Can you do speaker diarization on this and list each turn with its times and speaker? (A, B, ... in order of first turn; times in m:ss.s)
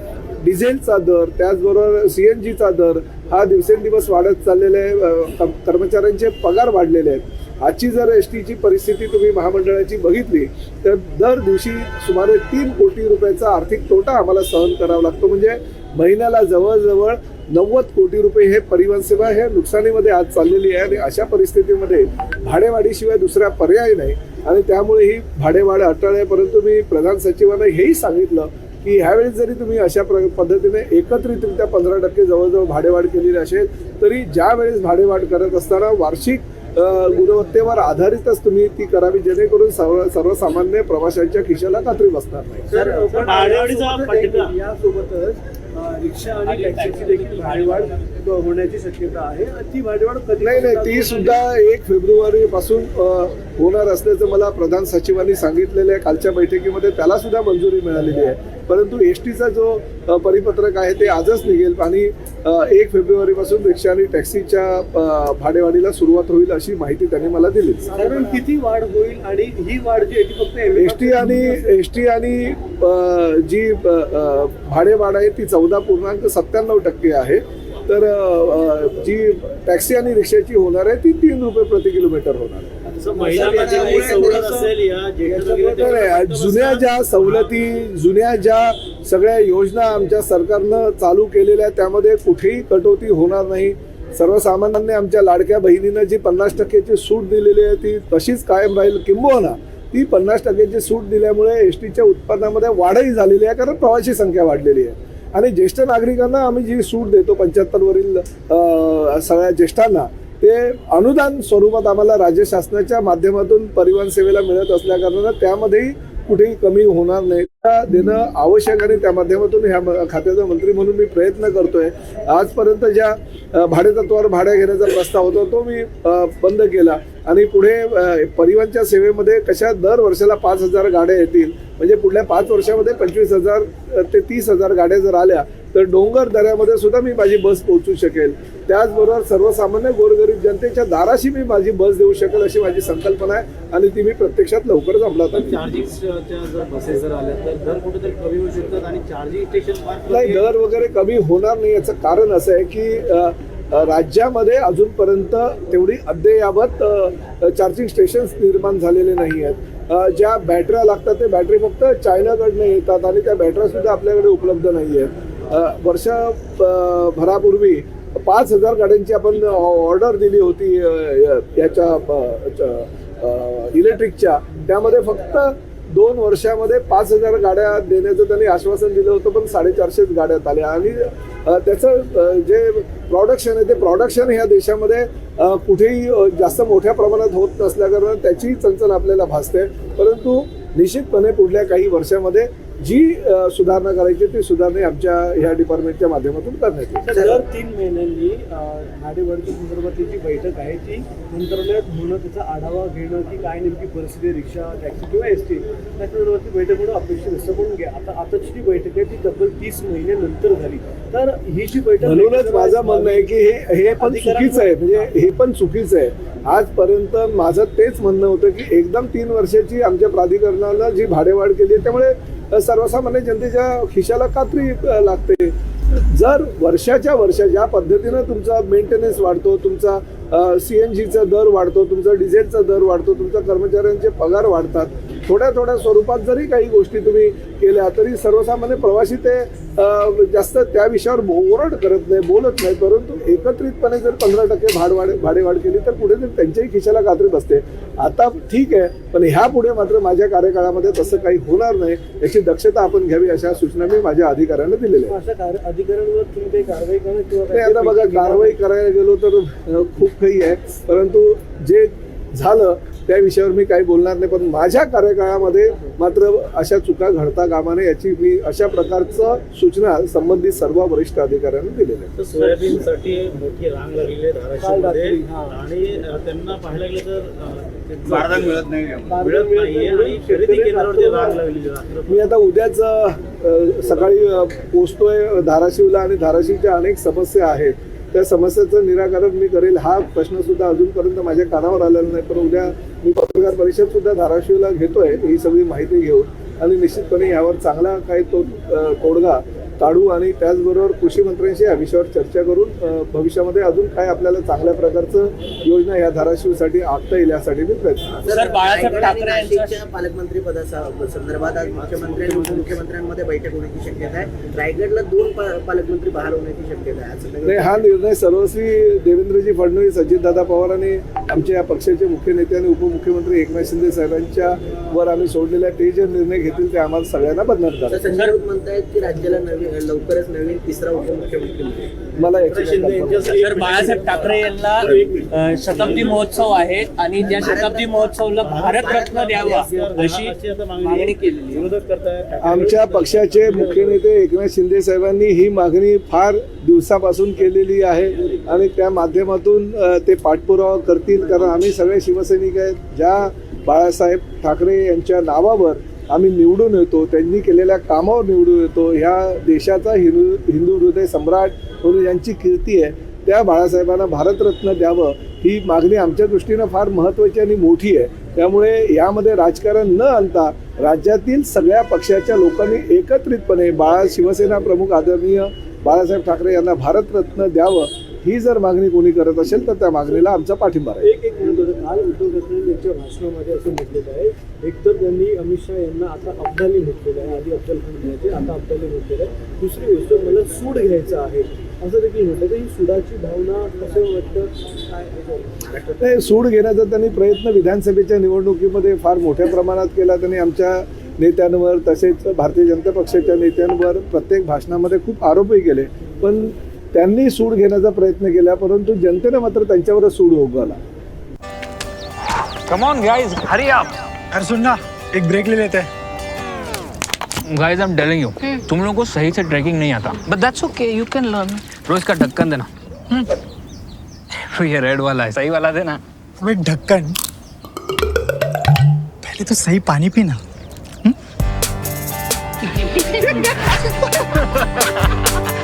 0:00.4-0:42.7 A
0:42.7-0:51.4 B
0:42.7-0:44.5 C
0:46.4-0:47.9 D
0:50.4-1:07.9 A
1:07.9-1:08.4 E
1:07.9-1:11.6 B
1:10.8-1:22.8 A
1:22.9-1:24.8 B
1:23.0-1:27.5 C
1:23.2-1:24.7 E
1:25.3-1:25.9 B
1:25.6-2:25.6 A
2:25.3-2:30.5 C
2:30.1-3:17.1 A
3:17.0-3:35.1 B
3:32.0-4:15.2 A
4:15.1-4:18.6 B
4:17.5-4:32.2 A
4:32.2-4:42.3 C
4:32.4-4:32.8 B
4:34.6-4:35.6 B
4:39.1-4:41.4 B
4:42.1-5:08.1 A
5:08.1-5:17.8 E
5:08.3-5:09.8 D
5:11.6-5:12.8 C
5:17.4-5:28.1 A
5:27.9-5:32.0 E
5:28.1-5:28.4 D
5:32.2-5:33.4 A
5:32.2-5:36.2 C
5:33.3-5:41.7 D
5:37.2-5:40.0 E
5:38.4-5:44.0 C
5:42.4-6:21.1 A
6:21.0-6:34.5 B
6:35.7-6:36.0 E
6:36.0-6:50.8 A
6:52.7-6:53.9 F
6:54.3-6:55.9 G
6:57.4-7:03.2 F
7:04.3-7:06.0 F
7:06.4-7:07.2 G
7:09.2-7:10.4 G